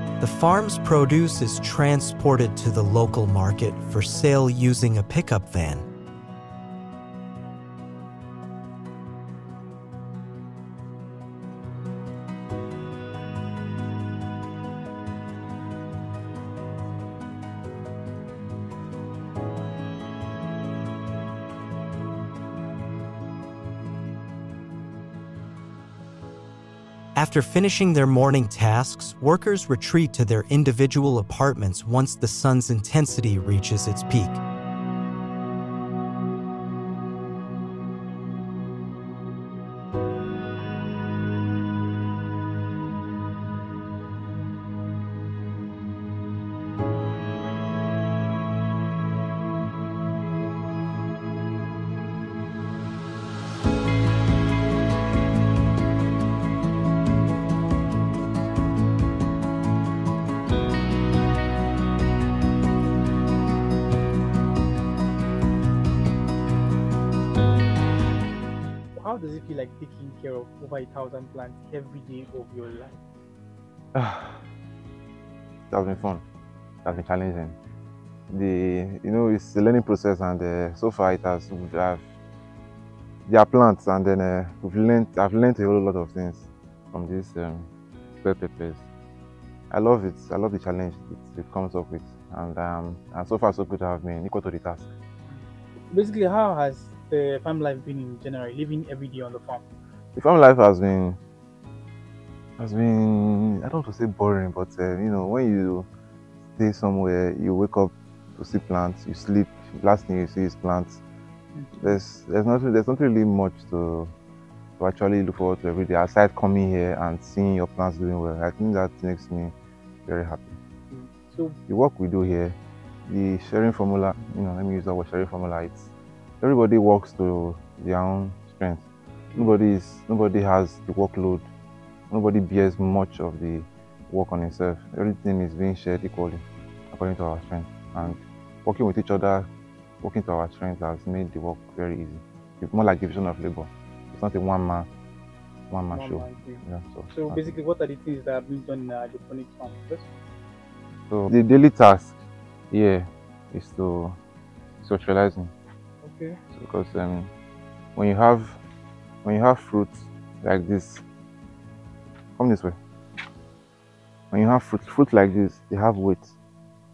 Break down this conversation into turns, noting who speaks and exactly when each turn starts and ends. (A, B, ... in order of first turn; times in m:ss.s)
0:00.2-0:05.8 A
0:27.2-0:34.4 A
1:08.9-1:13.0 B
1:13.9-1:14.4 C
1:15.7-1:16.2 C
1:16.8-1:17.6 C
1:18.3-1:22.1 C
1:23.2-1:27.7 C
1:28.2-1:28.8 C
1:29.7-1:34.9 C
1:35.3-1:39.6 B
1:40.1-1:41.2 C
1:42.6-1:45.9 C
1:46.5-1:51.0 C
1:51.5-1:52.0 B
1:51.8-1:54.1 C
1:54.8-1:59.5 C
2:00.0-2:00.6 C
2:00.9-2:01.6 B
2:01.7-2:11.5 C
2:12.1-2:19.5 C
2:20.0-2:24.9 C
2:25.7-2:27.5 C
2:25.9-2:26.6 B
2:27.1-2:30.1 B
2:31.1-2:34.2 C
2:34.8-2:35.5 C
2:36.0-2:36.4 B
2:36.5-2:37.3 C
2:37.9-2:38.6 C
2:39.2-2:41.0 C
2:42.4-2:42.8 C
2:44.3-2:46.3 C